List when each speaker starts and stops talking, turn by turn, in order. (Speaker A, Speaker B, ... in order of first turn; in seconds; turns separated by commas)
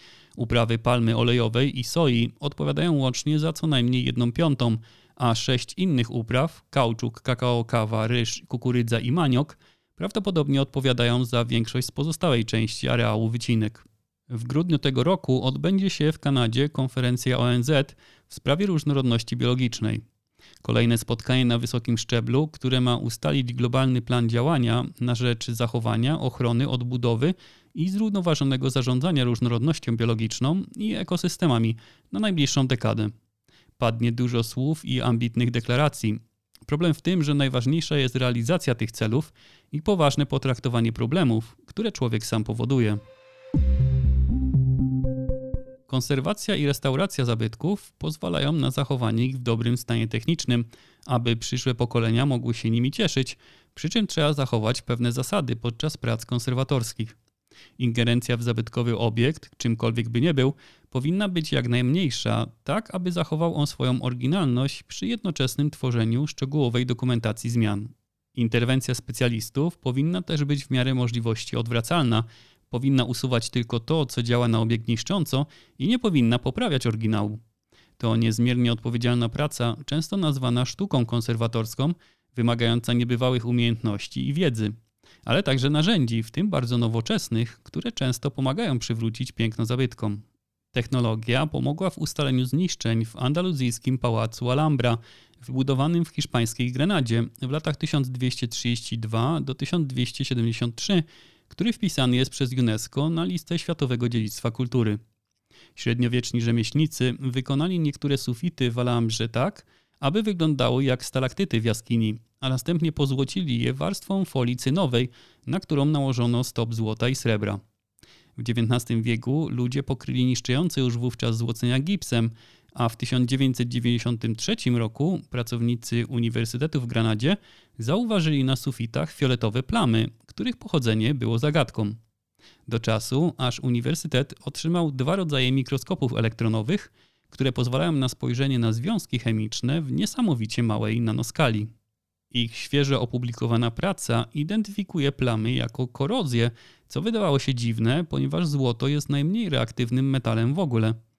Speaker A: 0.4-20.0, Speaker A: 20.6-33.1, Speaker A: 33.8-43.0, Speaker A: 45.9-57.2, Speaker A: 57.8-77.4, Speaker A: 78.0-105.0, Speaker A: 105.8-117.6, Speaker A: 118.4-132.0, Speaker A: 132.7-141.7, Speaker A: 142.3-151.0